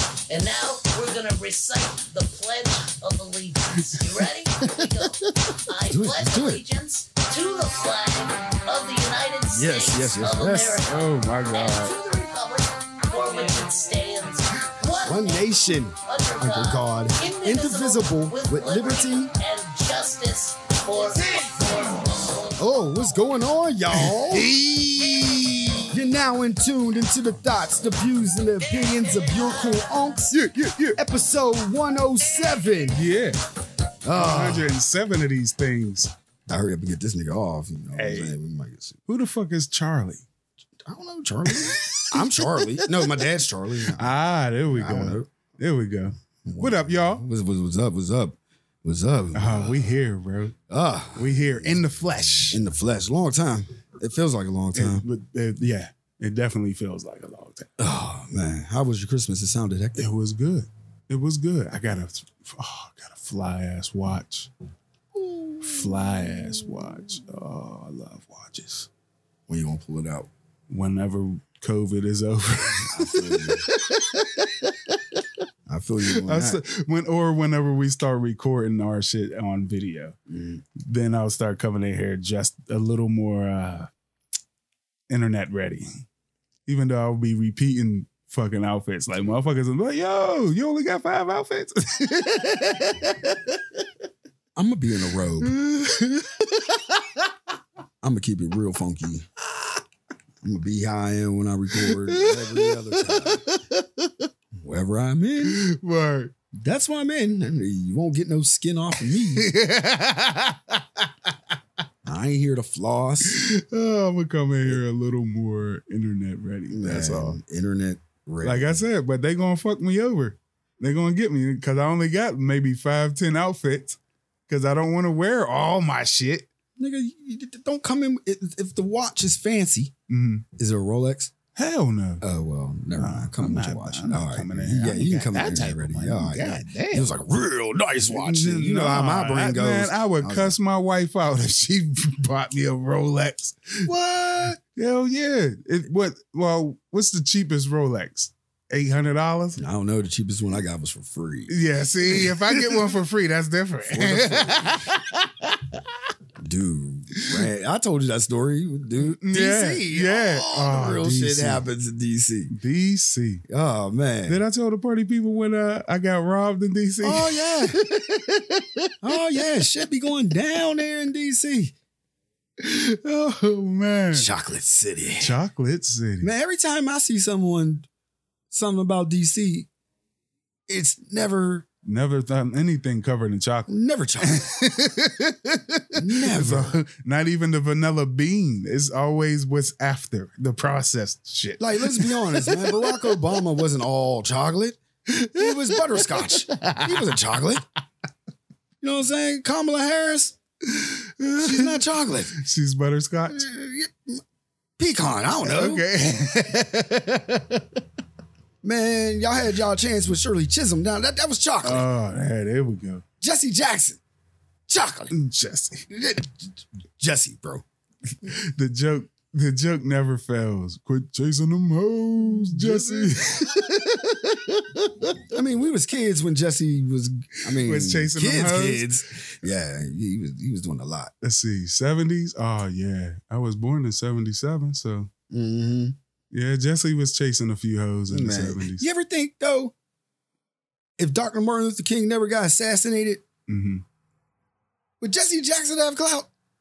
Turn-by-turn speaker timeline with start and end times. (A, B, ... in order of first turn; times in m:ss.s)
0:00.3-0:22.2 A
0:05.9-0:06.6 B
0:09.5-0:10.8 B
0:10.8-0:12.0 C
0:15.0-0:19.3 B
0:22.6-0:24.5 B
0:23.9-0:25.9 C
0:25.9-0:30.4 B
0:29.4-0:30.1 A
0:30.3-0:31.0 C
0:31.0-0:33.0 B
0:33.0-0:33.4 C
0:34.0-0:34.7 B
0:34.1-0:36.1 C
0:36.5-0:39.0 B
0:38.0-0:38.4 C
0:39.1-0:40.2 C
0:40.9-0:44.1 B
0:41.5-0:43.1 C
0:43.9-0:47.2 C
0:44.7-0:45.3 B
0:46.4-0:49.9 B
0:49.3-0:50.6 C
0:50.7-0:51.8 B
0:51.2-0:52.6 C
0:52.5-0:55.0 B
0:54.8-0:57.7 C
0:57.8-1:00.1 B
1:00.0-1:04.5 C
1:05.2-1:06.3 B
1:05.6-1:08.9 C
1:09.5-1:10.3 B
1:10.7-1:14.5 C
1:12.9-1:13.7 B
1:15.7-1:16.6 B
1:16.0-1:20.2 C
1:20.3-1:20.6 B
1:20.8-1:23.9 C
1:25.1-1:26.0 C
1:26.7-1:33.6 C
1:34.6-1:35.5 B
1:35.4-1:37.3 C
1:38.0-1:39.3 B
1:40.4-1:43.4 B
1:41.8-1:44.1 C
1:44.6-1:45.6 B
1:45.4-1:46.3 C
1:46.5-1:49.5 B
1:49.3-1:51.3 C
1:52.0-1:53.4 B
1:53.2-1:57.4 C
1:56.7-1:58.8 B
1:58.4-2:06.5 C
2:06.8-2:09.9 B
2:10.1-2:10.4 C
2:10.6-2:11.3 B
2:11.6-2:12.2 C
2:12.2-2:20.6 B
2:13.0-2:17.2 C
2:18.1-2:23.9 C
2:23.8-2:24.6 B
2:24.8-2:29.6 C
2:29.6-2:32.9 B
2:31.5-2:35.8 C
2:33.9-2:34.8 B
2:36.4-2:42.5 B
2:39.1-2:41.6 C
2:42.5-2:43.4 C
2:43.5-2:44.4 B
2:44.3-2:47.7 C
2:47.0-2:48.3 B
2:49.0-2:51.7 B
2:52.6-2:54.3 C
2:54.1-2:55.3 B
2:55.2-2:56.3 C
2:56.2-2:57.9 B
2:58.5-2:59.7 B
3:00.7-3:01.6 B
3:01.8-3:03.7 C
3:03.7-3:04.6 B
3:04.2-3:13.2 C
3:05.9-3:06.8 B
3:11.6-3:14.8 B
3:15.1-3:17.0 C
3:15.3-3:17.6 B
3:18.8-3:20.4 B
3:20.6-3:23.5 C
3:21.4-3:22.4 B
3:23.3-3:24.2 B
3:24.8-3:25.8 B
3:25.4-3:27.6 C
3:28.6-3:31.9 B
3:31.6-3:33.0 C
3:33.2-3:34.0 B
3:34.7-3:35.1 B
3:35.1-3:35.9 C
3:35.9-3:37.6 B
3:38.3-3:45.1 C
3:42.3-3:43.5 B
3:45.3-3:51.1 B
3:47.5-3:48.9 C
3:51.2-3:55.1 C
3:55.3-3:56.0 B
3:56.3-3:58.9 C
3:58.1-3:59.7 B
4:01.0-4:03.2 B
4:03.5-4:03.8 C
4:05.0-4:06.3 B